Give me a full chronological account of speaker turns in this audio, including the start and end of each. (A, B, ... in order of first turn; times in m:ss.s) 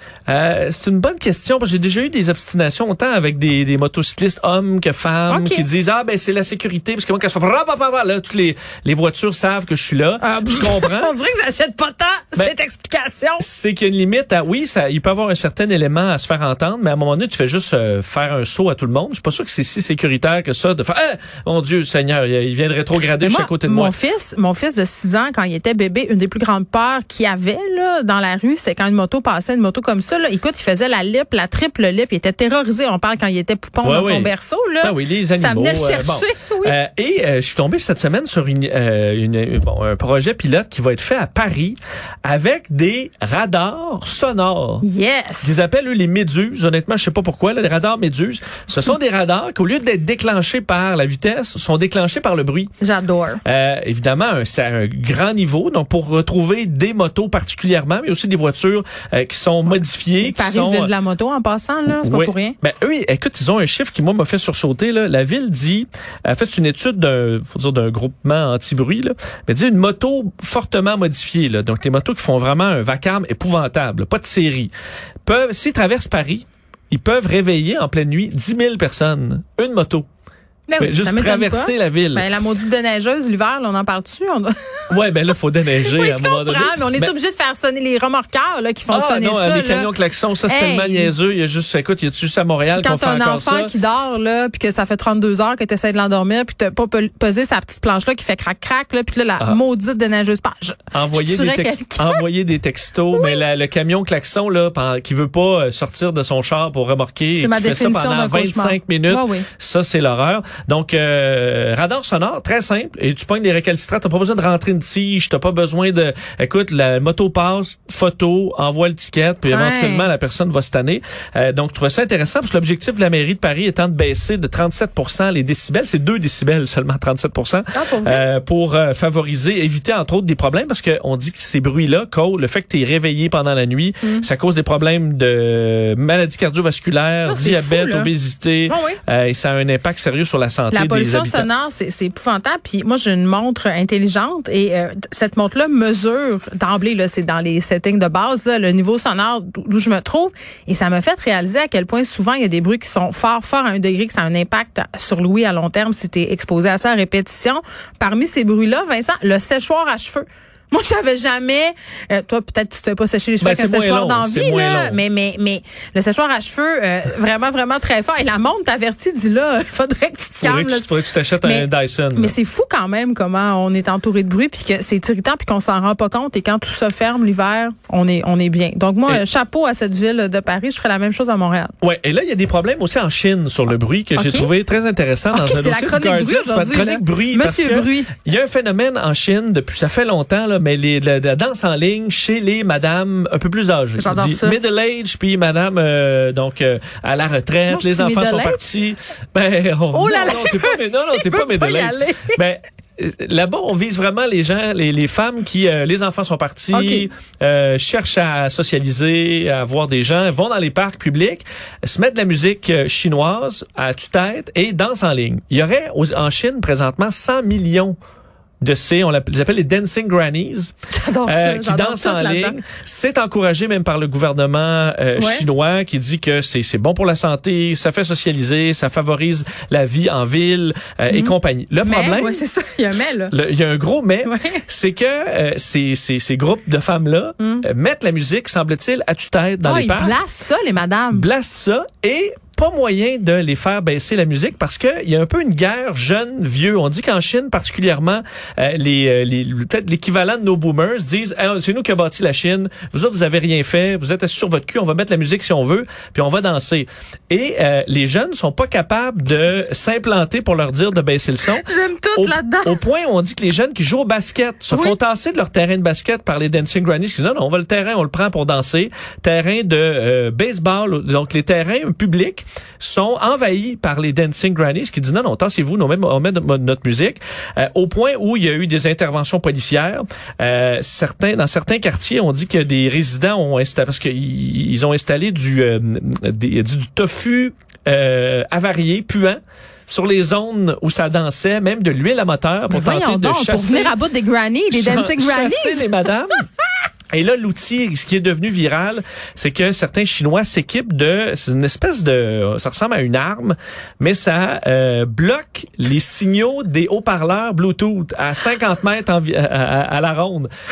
0:00.3-0:11.1 A
0:05.3-0:05.7 B
0:10.2-0:13.4 B
0:13.4-0:23.9 A
0:23.2-0:36.8 B
0:33.8-0:44.8 A
0:44.8-0:45.6 B
0:45.4-0:52.7 A
0:52.8-0:53.4 B
0:53.4-1:00.9 A
1:00.2-1:02.6 B
1:02.0-1:14.7 A
1:15.2-1:20.0 A
1:20.7-1:24.5 B
1:20.8-1:22.2 A
1:24.9-1:27.1 A
1:25.8-1:29.9 B
1:28.9-1:33.7 A
1:30.4-1:31.1 B
1:32.7-1:42.2 B
1:40.9-2:21.5 A
1:43.1-1:43.4 B
1:47.4-1:49.5 B
1:59.5-2:00.1 B
2:07.7-2:08.2 B
2:17.2-2:18.1 B
2:18.7-2:19.0 B
2:20.7-3:01.7 B
2:43.4-2:45.0 A
2:50.4-2:52.4 A
3:01.8-3:38.0 A
3:04.2-3:04.5 B
3:05.3-3:08.2 B
3:14.0-3:14.6 B
3:17.7-3:18.6 B
3:19.9-3:22.4 B
3:26.7-3:27.1 B
3:38.6-3:40.7 A
3:40.9-3:42.6 B
3:41.2-4:00.2 A
3:45.2-3:45.4 B
3:51.1-3:53.3 B
3:54.2-3:54.6 B
3:57.4-3:57.6 B
3:59.6-4:01.3 B
4:01.1-4:53.9 A
4:21.5-4:22.8 B
4:24.7-4:25.0 B
4:52.7-4:56.0 B
4:54.7-4:56.4 A
4:57.1-5:10.5 A